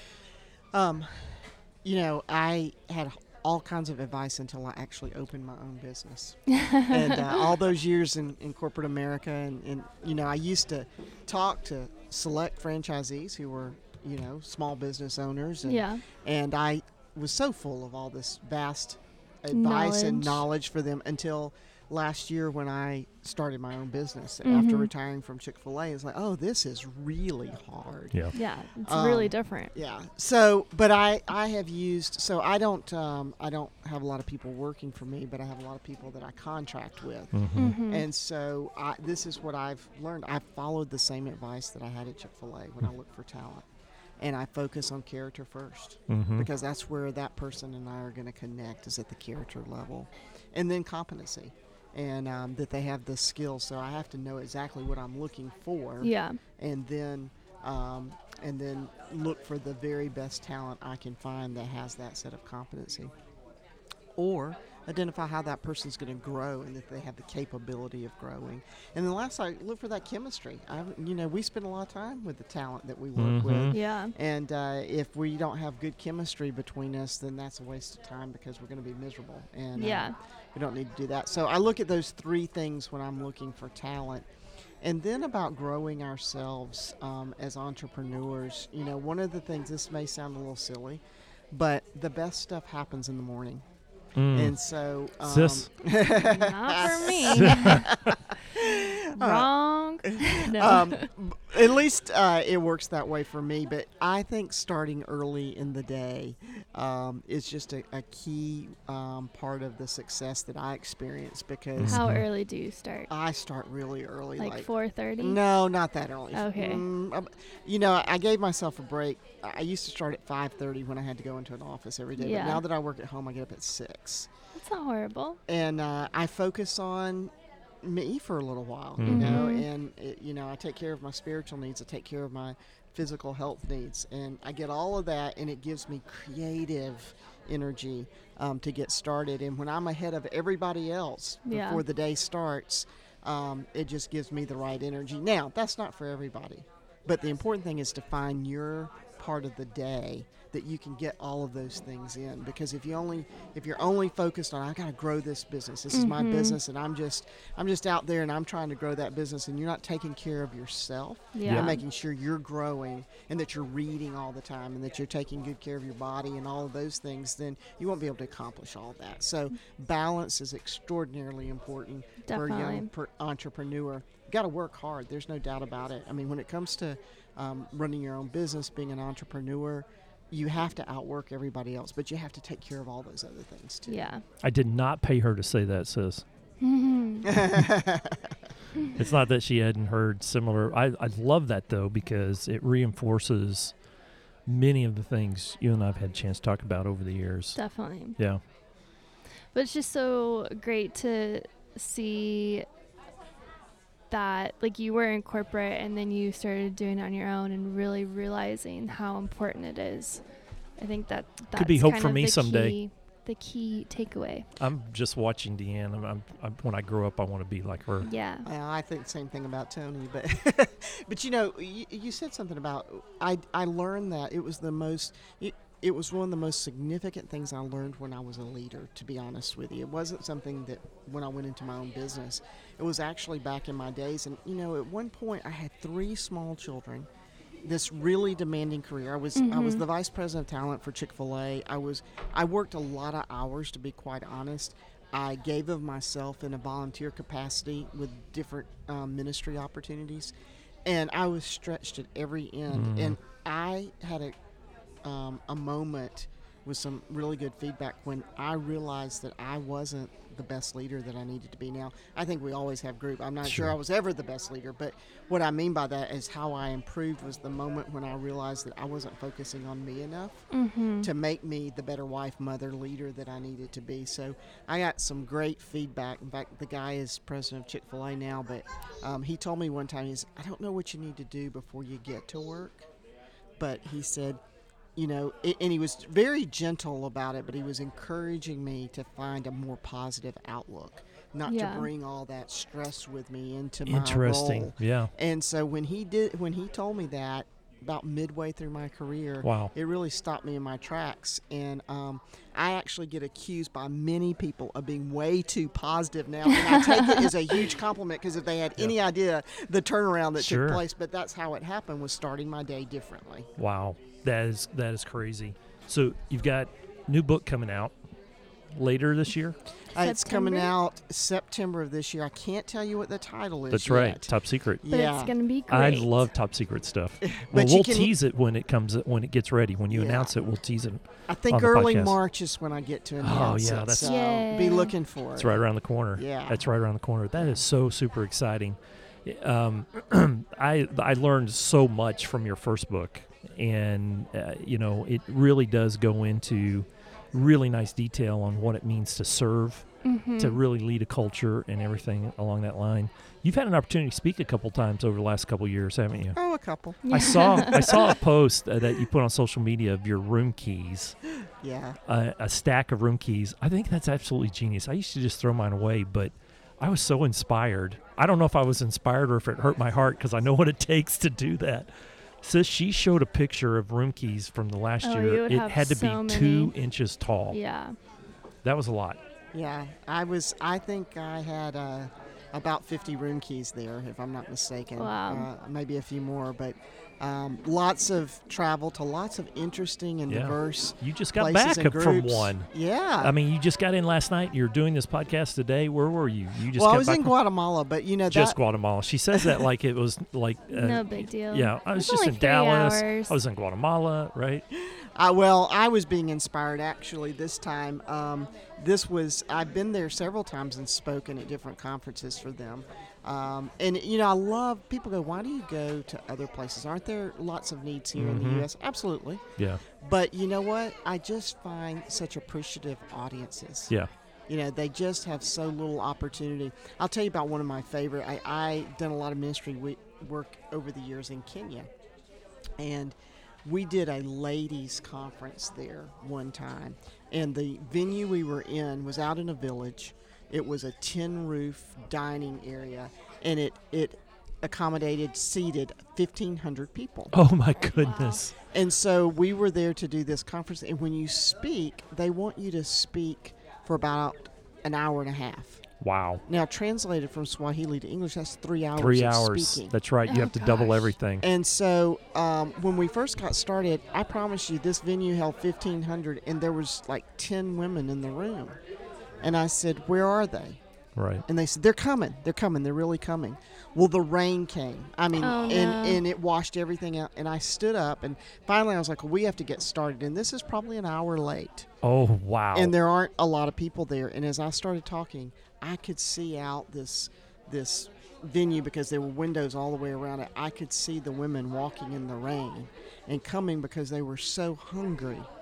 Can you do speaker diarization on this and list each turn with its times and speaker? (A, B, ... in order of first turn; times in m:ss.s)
0:00.7-0:28.3 A
0:06.5-0:07.5 B
0:15.7-0:16.0 B
0:19.5-0:20.4 B
0:24.4-0:24.9 B
0:28.3-0:29.7 B
0:28.8-0:43.7 A
0:37.3-0:37.8 C
0:37.6-0:38.1 B
0:44.2-1:03.1 A
0:46.1-0:46.5 C
0:56.0-0:56.4 B
1:04.2-1:24.3 A
1:13.2-1:13.8 C
1:13.7-1:14.1 B
1:19.8-1:20.2 B
1:24.8-1:33.6 A
1:34.2-1:34.6 C
1:34.3-1:39.5 A
1:35.2-1:35.7 C
1:36.1-1:37.9 B
1:37.3-1:38.2 C
1:38.6-1:41.1 B
1:40.0-1:52.0 A
1:51.8-1:52.2 C
1:51.8-1:53.1 B
1:53.1-2:04.3 A
1:54.4-1:55.4 B
1:56.3-1:56.9 B
2:02.2-2:02.6 B
2:04.6-2:05.4 B
2:05.5-3:04.1 A
2:09.0-2:09.4 C
2:09.1-2:09.7 B
2:21.4-2:21.8 B
2:35.9-2:36.6 B
2:41.4-2:41.8 B
2:41.4-2:41.7 C
2:52.3-2:52.9 B
3:03.9-3:04.2 B
3:04.4-3:06.2 C
3:06.6-3:07.4 B
3:07.2-3:08.4 A
3:08.9-3:13.7 C
3:14.5-3:17.6 C
3:17.6-3:18.2 B
3:19.5-3:22.7 B
3:24.1-3:30.2 B
3:30.8-3:34.5 B
3:31.6-3:32.8 C
3:34.6-3:38.1 C
3:38.0-3:38.5 B
3:38.4-3:57.1 A
3:57.6-4:10.3 A
3:59.4-3:59.8 B
4:10.9-4:14.4 A
4:12.7-4:13.2 C
4:15.0-4:30.4 A
4:23.4-4:23.8 C
4:30.5-4:31.1 B
4:31.0-4:42.9 A
4:43.6-4:44.4 A
4:45.0-5:13.5 A
4:51.5-4:51.9 B
4:53.9-4:55.1 C
4:59.4-4:59.7 C
5:06.5-5:07.3 B
5:10.4-5:10.8 C
5:13.6-5:17.9 C
5:18.8-5:19.6 C
5:20.0-5:20.7 B
5:20.0-5:25.3 A
5:23.7-5:24.8 C
5:24.9-5:26.1 B
5:25.7-5:32.2 C
5:27.2-5:28.2 A
5:29.9-5:30.3 A
5:31.3-5:35.6 A
5:33.2-5:34.1 C
5:34.0-5:34.9 B
5:35.4-5:49.9 C
5:36.2-5:36.6 A
5:50.0-5:50.6 B
5:50.4-5:56.4 C
5:56.3-5:58.2 A
5:57.0-5:58.1 B
5:57.1-6:01.2 C
6:01.4-6:02.0 A
6:02.1-6:11.9 C
6:12.4-6:17.6 C
6:15.0-6:16.7 B
6:17.5-6:18.0 B
6:18.6-6:19.2 C
6:19.5-6:33.4 A
6:25.0-6:25.5 B
6:30.3-6:32.7 C
6:33.2-6:37.3 C
6:36.7-6:38.6 A
6:38.3-6:44.6 C
6:39.3-6:39.7 A
6:40.7-6:43.3 B
6:44.7-6:59.4 A
6:58.2-6:58.7 C
7:00.0-7:03.9 A
7:04.5-7:11.9 A
7:12.8-7:27.3 A
7:27.3-7:28.6 C
7:27.8-7:28.4 B
7:28.7-7:35.8 A
7:36.0-7:36.4 C
7:36.5-7:39.9 A
7:39.0-7:41.5 C
7:40.3-7:41.1 B
7:41.4-7:48.8 A
7:49.4-7:50.8 A
7:51.2-7:51.4 C
7:51.5-8:01.9 A
7:55.4-7:56.2 B
8:02.0-8:03.0 C
8:02.7-8:15.5 A